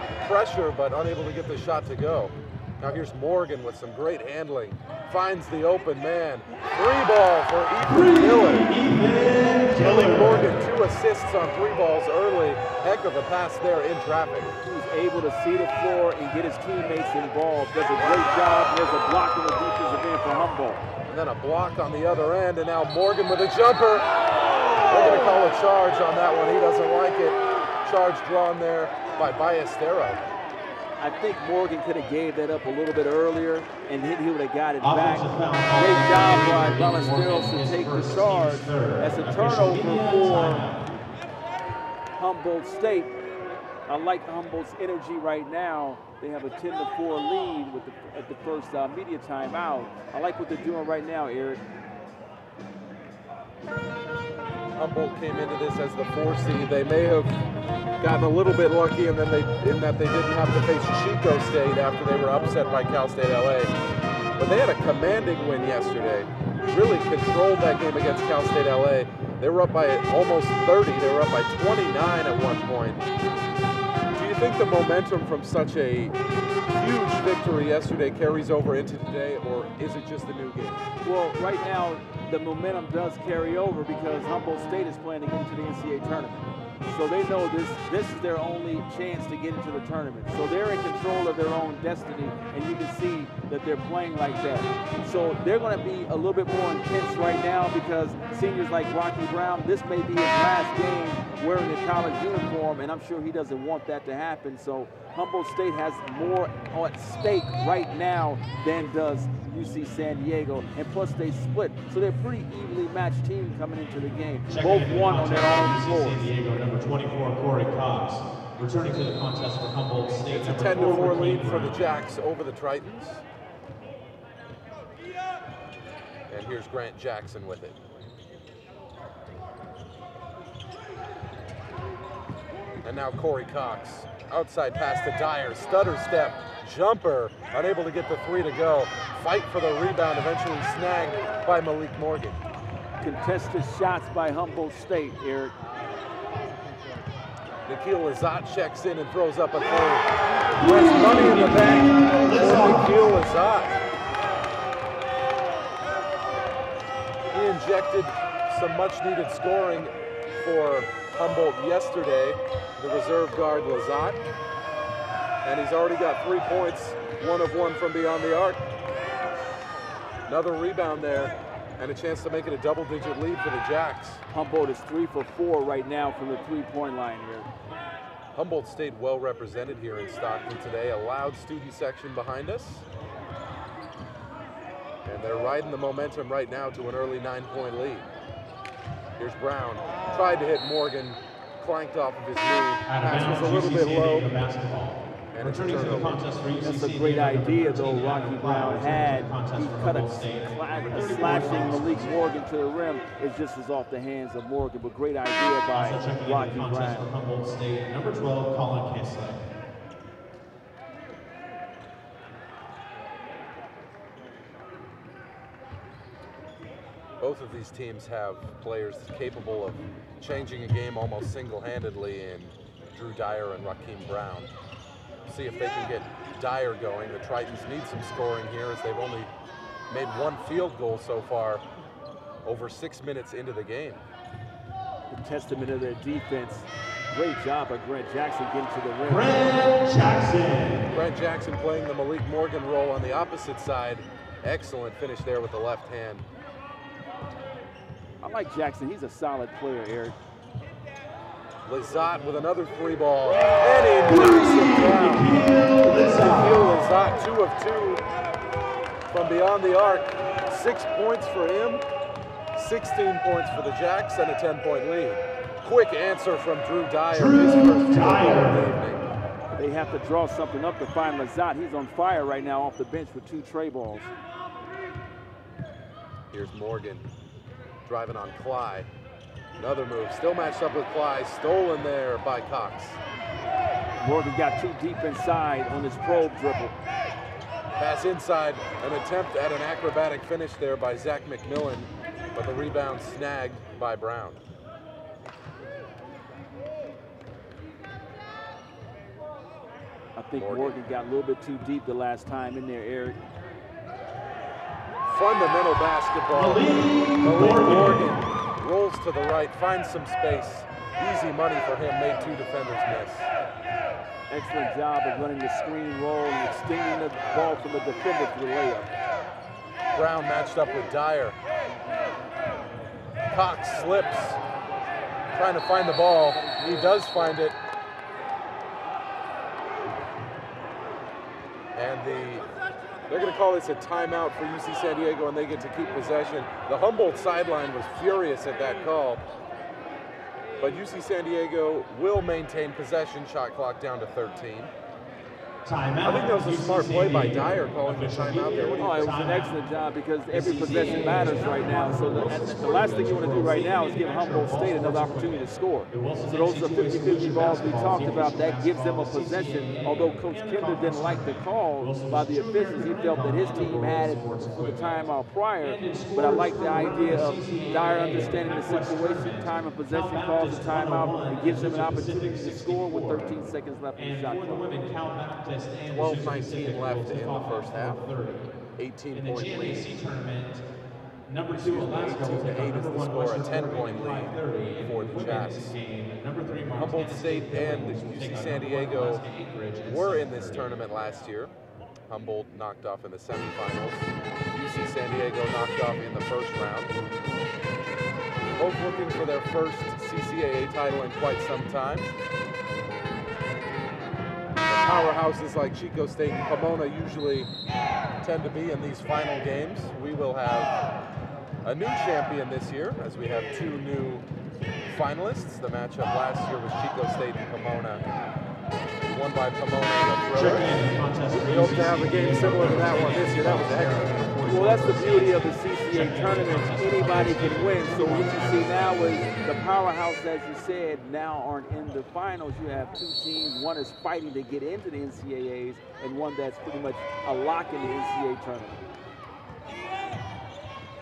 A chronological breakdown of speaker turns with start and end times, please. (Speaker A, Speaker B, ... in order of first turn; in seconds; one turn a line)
Speaker A: 0.2-8.7
Speaker B: 7.8-10.5
Speaker A: 9.7-14.5
Speaker C: 14.6-20.8
Speaker A: 21.0-24.1
Speaker A: 24.8-30.2
Speaker C: 31.0-40.6
Speaker B: 34.8-41.0
Speaker C: 42.2-43.1
Speaker C: 43.9-51.6
Speaker A: 54.8-57.3
Speaker A: 58.0-63.7
Speaker A: 64.4-73.0
Speaker A: 74.1-76.2
Speaker A: 76.7-80.8
Speaker C: 81.0-116.3
Speaker B: 114.5-121.8
Speaker A: 120.3-123.2
Speaker A: 126.3-127.8
Speaker A: 132.8-142.4
Speaker C: 143.0-145.5
Speaker A: 147.7-153.8
Speaker B: 150.6-153.2
Speaker A: 157.3-164.2
Speaker A: 165.4-168.6
Speaker A: 170.3-174.2
Speaker C: 174.3-177.5
Speaker A: 178.3-182.8
Speaker A: 185.1-188.1
Speaker A: 189.2-194.3
Speaker B: 192.9-202.2
Speaker A: 195.3-196.2
Speaker C: 196.6-207.1
Speaker B: 205.7-209.4
Speaker A: 217.2-224.5
Speaker A: 225.3-229.3
Speaker A: 229.9-231.6
Speaker A: 232.4-234.0
Speaker C: 235.1-239.6
Speaker B: 239.0-240.8
Speaker A: 240.9-246.2
Speaker C: 248.2-250.2
Speaker A: 251.7-255.4
Speaker B: 254.1-256.7
Speaker A: 256.0-258.0
Speaker A: 259.1-261.8
Speaker A: 262.5-269.1
Speaker B: 267.1-268.6
Speaker C: 269.6-274.1
Speaker A: 276.3-277.1
Speaker A: 277.9-278.9
Speaker A: 279.6-283.0
Speaker C: 284.0-286.7
Speaker A: 287.8-294.4
Speaker C: 300.2-303.2
Speaker A: 300.4-300.8
Speaker A: 305.1-313.3
Speaker B: 306.3-308.2
Speaker C: 314.3-318.9
Speaker A: 319.9-321.4
Speaker A: 323.3-324.4
Speaker A: 325.3-327.6
Speaker A: 331.7-332.4
Speaker A: 333.1-339.2
Speaker A: 340.6-344.7
Speaker B: 345.6-349.6
Speaker A: 346.0-349.2
Speaker C: 348.8-374.7
Speaker B: 350.3-365.1
Speaker A: 353.0-353.4
Speaker B: 365.6-373.4
Speaker B: 373.9-378.5
Speaker A: 375.9-378.0
Speaker A: 378.8-379.9
Speaker B: 379.1-380.6
Speaker B: 381.3-390.7
Speaker A: 381.5-385.7
Speaker A: 386.7-389.2
Speaker A: 389.9-391.5
Speaker A: 392.1-396.9
Speaker A: 398.6-402.1
Speaker A: 404.7-407.5
Speaker A: 408.2-410.7
Speaker A: 411.6-414.2
Speaker A: 414.9-418.0
Speaker A: 419.1-420.8
Speaker B: 420.3-429.7
Speaker A: 421.3-424.2
Speaker C: 424.5-438.8